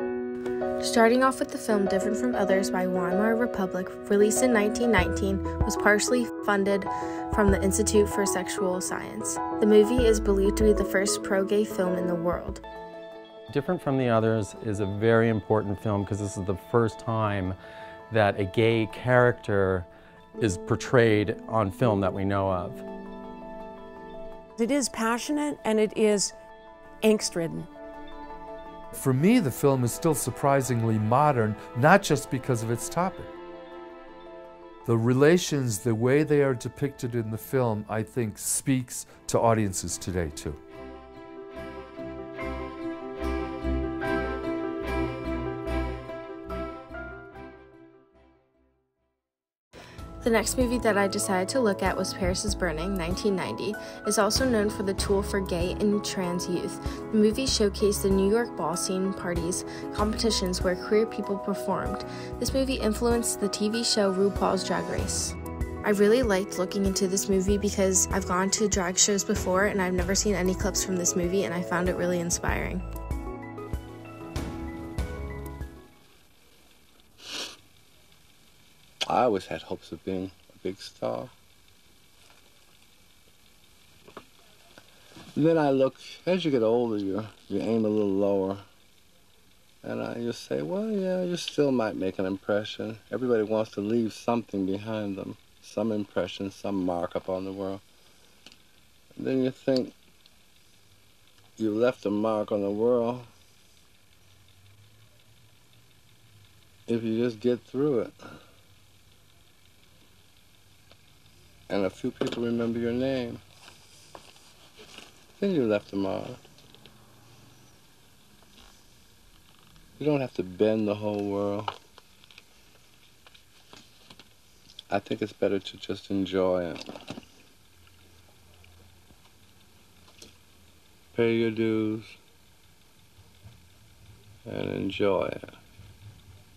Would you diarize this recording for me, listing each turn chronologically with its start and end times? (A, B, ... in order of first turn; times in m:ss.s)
0:00.8-0:12.6 A
0:13.5-0:17.6 B
0:18.1-0:19.9 B
0:20.4-0:22.8 B
0:24.6-0:26.3 C
0:27.0-0:27.6 C
0:28.9-0:33.3 D
0:34.8-0:40.6 D
0:50.2-1:12.8 A
1:19.1-1:21.3 E
1:25.3-1:28.6 E
1:29.8-1:37.8 E
1:39.1-1:39.9 E
1:41.6-1:43.3 E
1:46.9-1:48.1 E
1:51.7-1:53.4 E
1:55.4-1:56.4 E
2:00.0-2:01.7 E
2:04.9-2:06.8 E
2:11.1-2:12.2 E
2:14.4-2:15.4 E